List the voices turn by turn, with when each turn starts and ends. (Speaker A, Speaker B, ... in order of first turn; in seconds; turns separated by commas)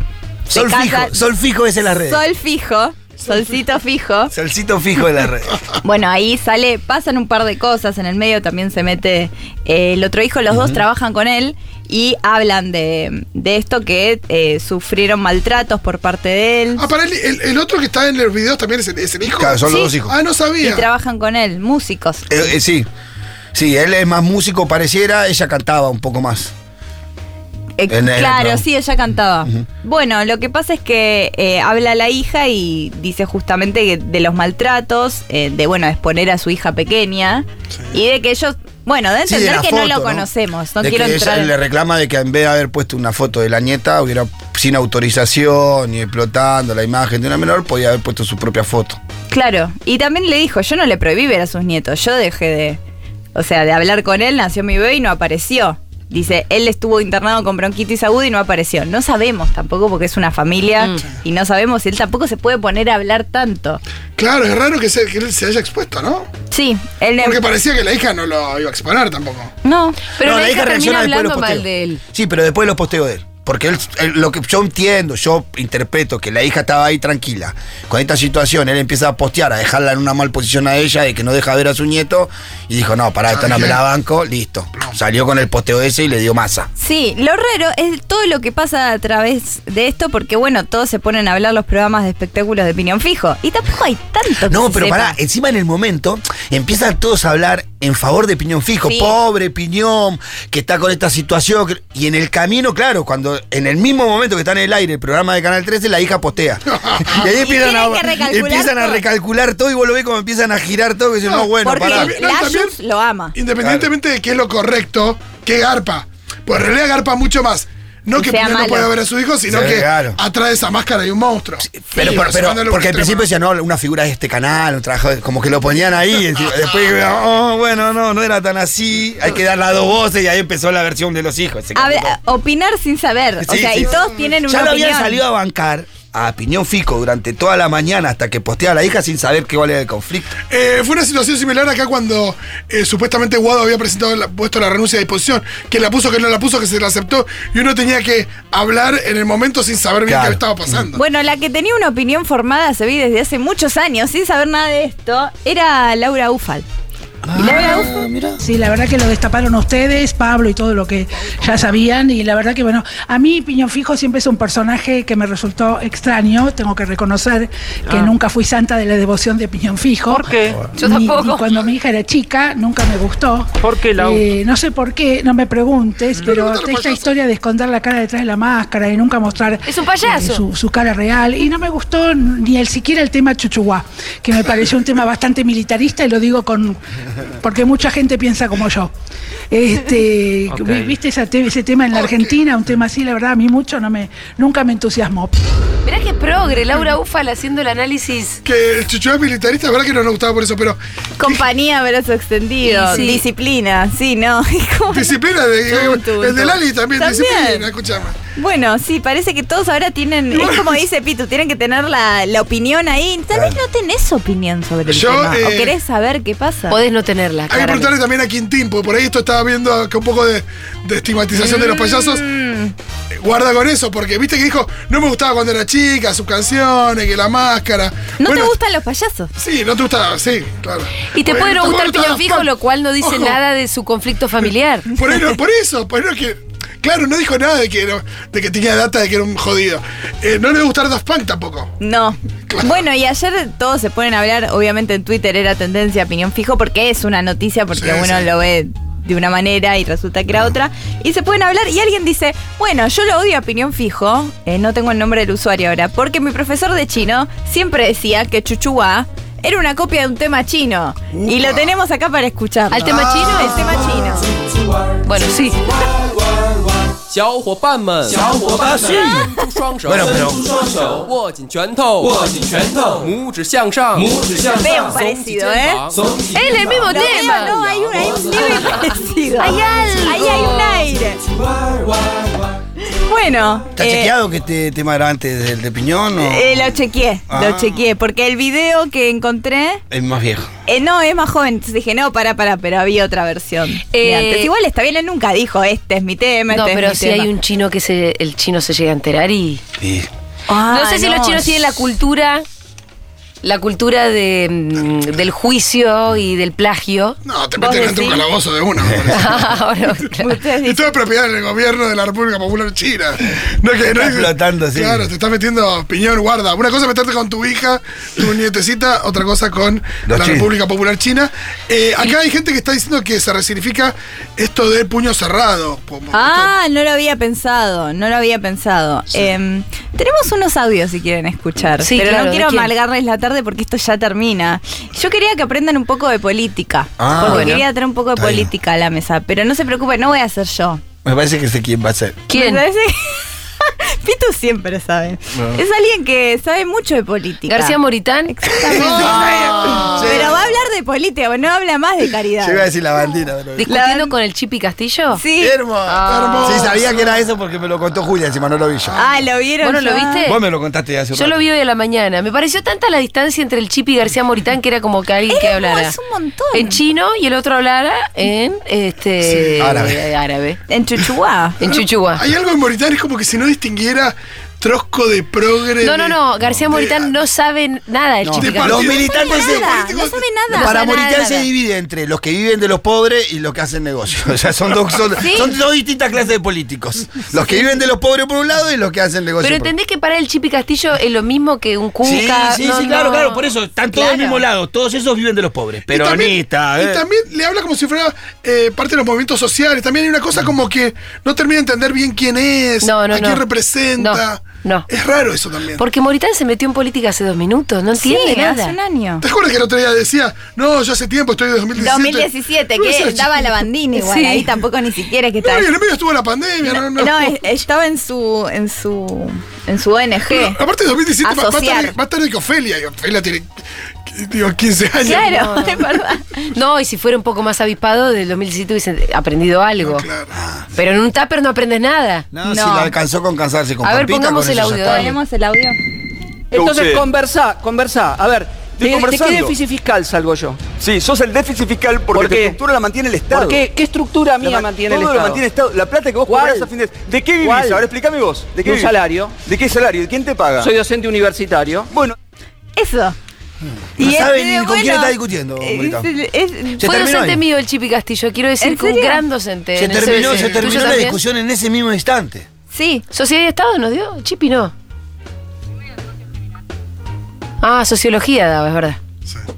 Speaker A: 0.5-1.2, Speaker B: 0.5-2.2, Speaker A: 1.9-4.3, Speaker B: 4.3-5.6, Speaker A: 5.8-16.9, Speaker B: 10.5-10.8, Speaker C: 16.8-20.9, Speaker B: 19.4-20.1, Speaker A: 19.7-19.9, Speaker A: 20.6-22.3, Speaker B: 22.3-22.9, Speaker B: 23.5-26.5, Speaker A: 27.8-41.5, Speaker B: 27.9-28.6, Speaker B: 39.2-40.2, Speaker B: 40.8-49.0, Speaker A: 49.3-52.8, Speaker A: 53.3-63.8, Speaker C: 64.2-66.3, Speaker A: 66.5-67.4, Speaker C: 67.2-69.5, Speaker A: 69.6-70.0, Speaker D: 70.1-72.0, Speaker B: 70.2-86.7, Speaker C: 83.3-83.8, Speaker A: 86.8-95.1, Speaker B: 94.5-112.2, Speaker A: 98.8-99.1, Speaker C: 106.8-107.1, Speaker A: 107.2-109.0, Speaker C: 111.2-112.8, Speaker A: 111.6-113.3, Speaker C: 113.3-123.2, Speaker B: 113.6-113.9, Speaker A: 118.2-118.9, Speaker B: 119.5-120.2, Speaker B: 121.7-132.2, Speaker A: 131.7-135.2, Speaker B: 133.4-140.3, Speaker C: 140.5-151.0, Speaker B: 150.1-150.8, Speaker A: 150.9-156.6, Speaker B: 157.2-158.4, Speaker A: 157.3-158.0, Speaker E: 158.4-186.8, Speaker D: 170.7-171.5, Speaker C: 176.2-177.1, Speaker D: 179.6-180.4, Speaker E: 187.4-188.9, Speaker E: 189.5-195.3, Speaker C: 191.9-192.3, Speaker D: 195.8-198.4, Speaker C: 198.4-201.4, Speaker A: 201.2-207.7, Speaker D: 202.6-203.2, Speaker C: 204.9-208.1, Speaker A: 208.3-216.8, Speaker C: 210.3-210.7, Speaker B: 213.3-213.6, Speaker C: 214.9-215.7, Speaker D: 216.7-217.9, Speaker C: 217.5-222.2, Speaker A: 221.3-222.7, Speaker C: 223.2-228.5, Speaker A: 228.2-229.3, Speaker C: 229.4-232.5, Speaker D: 231.1-234.9, Speaker C: 233.0-233.4, Speaker C: 234.9-241.7, Speaker A: 241.8-264.3, Speaker C: 242.5-242.8, Speaker C: 247.7-248.3, Speaker B: 261.2-261.6, Speaker D: 262.7-263.8, Speaker B: 263.2-263.4, Speaker D: 265.0-265.6, Speaker F: 267.1-279.0, Speaker B: 268.3-269.3, Speaker B: 269.8-270.9, Speaker B: 274.0-274.2, Speaker A: 274.5-275.9, Speaker D: 276.3-277.6, Speaker A: 276.7-281.2, Speaker D: 278.3-278.8, Speaker D: 279.4-280.9, Speaker A: 282.8-284.1, Speaker B: 283.8-287.8, Speaker A: 286.2-289.8, Speaker B: 289.9-290.5, Speaker A: 290.7-297.3, Speaker D: 293.9-294.5, Speaker D: 296.5-299.6, Speaker B: 299.8-300.1, Speaker A: 300.5-301.6, Speaker D: 300.6-302.4, Speaker D: 303.4-307.2, Speaker C: 307.2-309.6, Speaker A: 307.6-308.2, Speaker D: 309.1-310.4, Speaker A: 310.2-311.0, Speaker C: 310.6-326.5, Speaker B: 313.9-315.1, Speaker B: 320.1-320.5, Speaker A: 326.1-340.8, Speaker D: 331.8-332.7, Speaker B: 337.0-337.6, Speaker D: 337.2-337.6, Speaker B: 338.1-338.5, Speaker B: 341.0-342.3, Speaker D: 342.3-342.6, Speaker A: 342.3-352.7, Speaker D: 347.5-348.3, Speaker B: 348.7-350.5, Speaker C: 348.7-349.2, Speaker B: 352.4-353.7, Speaker D: 353.6-355.2, Speaker A: 353.7-354.1, Speaker A: 355.1-355.6, Speaker B: 355.4-359.1, Speaker D: 355.9-356.7, Speaker C: 356.1-356.9, Speaker A: 358.9-360.3, Speaker D: 359.6-360.4, Speaker B: 360.2-361.4, Speaker D: 361.1-365.9, Speaker A: 365.3-366.8, Speaker D: 366.5-370.6, Speaker C: 369.4-369.7, Speaker B: 369.6-370.0, Speaker A: 370.7-371.6, Speaker D: 371.6-372.2, Speaker C: 371.7-377.1, Speaker D: 375.8-378.9, Speaker B: 378.2-379.7, Speaker C: 378.4-380.2, Speaker A: 378.8-381.4, Speaker B: 380.5-389.7, Speaker D: 380.5-381.3, Speaker A: 385.2-385.5, Speaker D: 389.4-393.4, Speaker B: 392.0-397.0, Speaker A: 393.9-394.4, Speaker C: 395.9-405.8, Speaker D: 402.8-403.4, Speaker D: 404.0-404.9, Speaker D: 405.8-408.7, Speaker A: 407.9-409.2, Speaker C: 409.2-413.3, Speaker A: 411.8-415.7, Speaker D: 413.9-414.5, Speaker C: 415.4-417.4, Speaker A: 416.6-420.6, Speaker C: 420.3-425.3, Speaker A: 421.2-421.9, Speaker A: 425.0-426.5, Speaker D: 425.0-425.9, Speaker D: 426.5-430.1, Speaker C: 429.8-430.3, Speaker B: 430.3-430.6, Speaker D: 430.7-432.2, Speaker B: 432.3-435.1, Speaker A: 432.4-432.9, Speaker D: 433.8-435.1, Speaker A: 434.8-435.8, Speaker G: 436.5-440.6, Speaker H: 436.5-437.1, Speaker H: 438.8-439.5, Speaker H: 440.8-443.6, Speaker G: 442.1-442.6, Speaker G: 443.3-445.4, Speaker H: 444.4-448.9, Speaker G: 446.2-446.7, Speaker G: 447.4-447.9, Speaker G: 448.6-449.4, Speaker H: 449.4-450.7, Speaker G: 450.6-451.9, Speaker A: 452.8-453.1, Speaker B: 454.0-456.1, Speaker A: 454.0-457.1, Speaker B: 456.8-457.4, Speaker D: 456.8-461.2, Speaker A: 458.6-459.2, Speaker B: 459.8-462.5, Speaker A: 462.7-463.0, Speaker D: 463.1-464.7, Speaker D: 467.6-469.0